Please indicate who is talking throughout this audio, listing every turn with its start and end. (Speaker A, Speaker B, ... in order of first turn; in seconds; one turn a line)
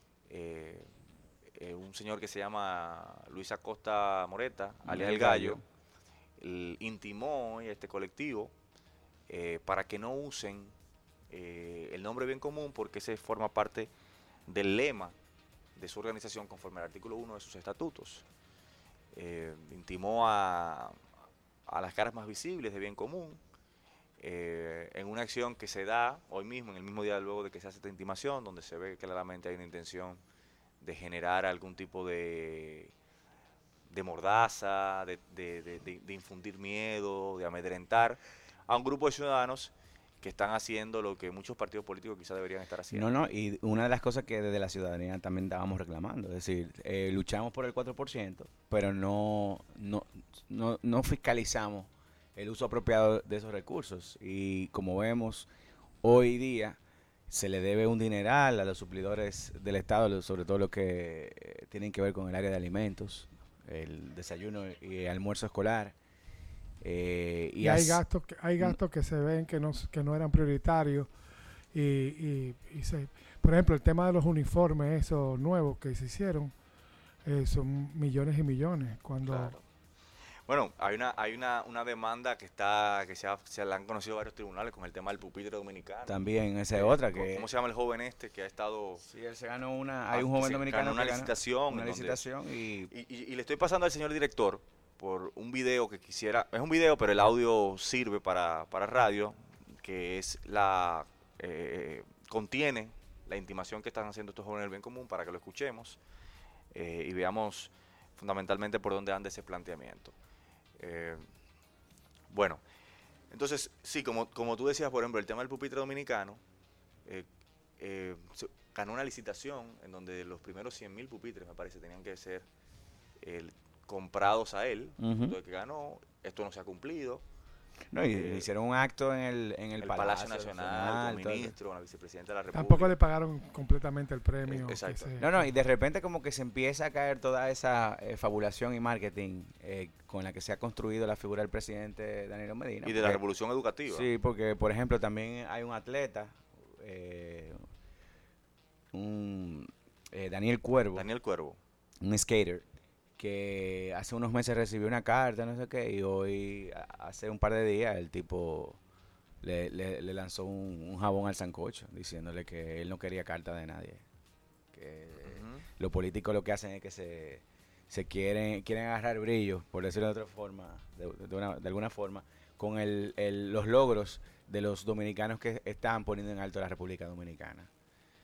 Speaker A: 0.3-0.9
Speaker A: 1.5-5.6
Speaker B: 4.8-5.6
Speaker A: 6.4-8.5
Speaker A: 9.3-10.7
Speaker A: 11.3-13.9
Speaker A: 14.5-15.2
Speaker A: 15.8-18.2
Speaker A: 19.1-20.9
Speaker A: 21.7-23.4
Speaker A: 24.2-30.2
Speaker A: 30.8-32.9
Speaker A: 33.9-43.1
Speaker B: 42.9-55.5
Speaker B: 56.0-56.8
Speaker B: 57.3-65.9
Speaker B: 66.8-68.0
Speaker C: 67.6-71.1
Speaker C: 71.7-76.5
Speaker C: 77.2-79.5
Speaker A: 79.2-79.6
Speaker A: 80.5-86.2
Speaker B: 86.1-87.5
Speaker A: 86.7-89.0
Speaker B: 89.0-92.9
Speaker A: 90.1-92.2
Speaker A: 92.9-106.0
Speaker A: 106.7-110.1
Speaker A: 110.8-111.2
Speaker A: 112.3-112.6
Speaker A: 113.3-116.4
Speaker A: 117.8-122.5
Speaker A: 123.2-127.2
Speaker B: 125.0-125.3
Speaker B: 127.9-131.5
Speaker A: 128.1-128.5
Speaker A: 129.8-133.0
Speaker C: 132.5-135.3
Speaker A: 134.4-135.1
Speaker B: 135.2-143.2
Speaker A: 142.8-144.1
Speaker B: 143.9-147.6
Speaker B: 148.9-151.1
Speaker A: 150.9-151.6
Speaker B: 152.0-152.6
Speaker B: 153.2-158.8
Speaker B: 159.4-164.0
Speaker B: 164.7-177.7
Speaker A: 165.2-165.6